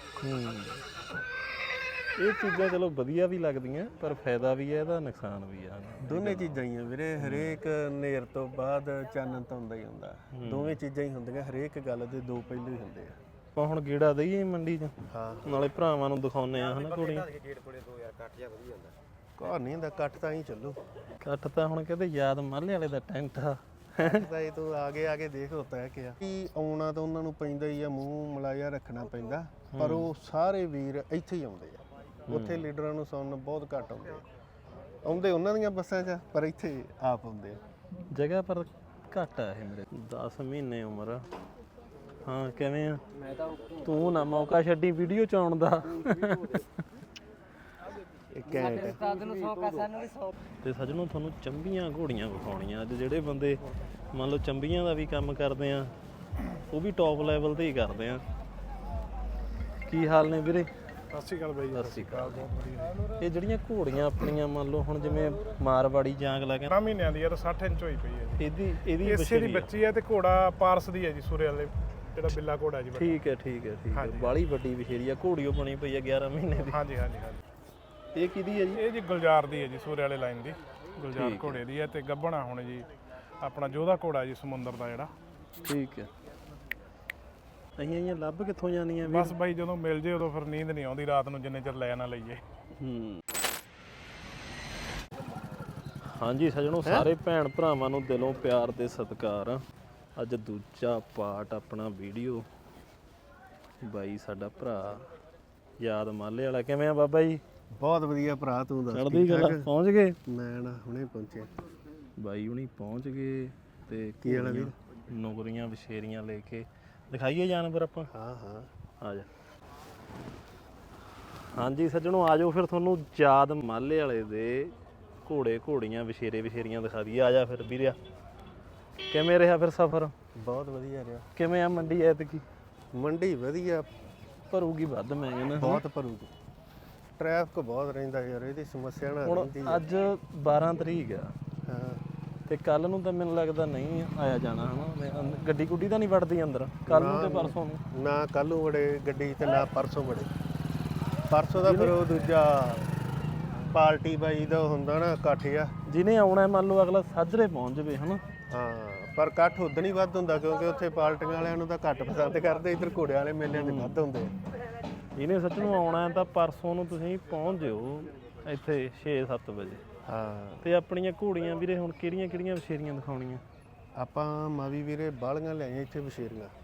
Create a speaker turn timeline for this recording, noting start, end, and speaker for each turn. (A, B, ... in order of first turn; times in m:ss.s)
0:00.2-0:00.8 A
0:02.2-0:06.6 A
0:06.0-0:13.2 B
0:07.2-0:07.6 A
0:10.3-0:10.8 A
0:13.6-0:17.4 A
0:15.1-0:15.7 B
0:17.5-0:18.9 C
0:19.4-0:20.8 B
0:21.2-0:24.2 A
0:24.0-0:34.2 B
0:29.7-0:30.1 A
0:32.3-0:32.7 A
0:35.0-0:37.6 B
0:38.1-0:41.2 A
0:42.2-0:43.0 A
0:43.8-0:46.7 A
0:48.3-0:49.1 B
0:49.0-0:50.3 C
0:50.6-0:55.9 A
0:56.5-0:58.2 A
0:59.8-1:00.7 A
1:01.1-1:03.1 D
1:01.7-1:02.4 A
1:03.2-1:06.7 A
1:06.7-1:13.2 D
1:08.4-1:09.7 A
1:12.9-1:16.8 A
1:13.9-1:14.4 D
1:16.7-1:17.4 D
1:18.1-1:18.8 A
1:18.7-1:22.9 D
1:21.1-1:21.6 A
1:23.4-1:25.1 D
1:25.6-1:26.1 A
1:27.8-1:29.3 A
1:29.0-1:32.4 D
1:32.8-1:33.2 A
1:36.0-1:39.6 A
1:36.8-1:37.1 B
1:40.2-1:42.5 A
1:43.8-1:45.1 A
1:45.8-1:47.4 A
1:47.8-1:49.7 B
1:48.9-1:50.2 A
1:50.3-1:51.5 B
1:52.2-1:58.1 A
1:54.2-1:54.7 B
1:58.1-1:58.7 B
1:59.0-1:59.3 A
2:01.5-2:08.0 A
2:09.1-2:10.1 A
2:10.4-2:11.3 B
2:11.3-2:12.4 A
2:12.9-2:13.8 B
2:14.5-2:15.8 A
2:15.6-2:16.3 B
2:17.2-2:19.8 B
2:19.2-2:21.3 A
2:21.6-2:22.0 B
2:22.5-2:27.8 A
2:26.8-2:30.3 B
2:31.3-2:32.9 B
2:31.6-2:32.0 A
2:33.7-2:35.7 B
2:35.9-2:38.2 A
2:38.5-2:44.3 B
2:43.5-2:44.0 A
2:45.2-2:49.8 A
2:50.1-2:50.7 B
2:50.6-2:53.4 A
2:54.0-2:56.5 B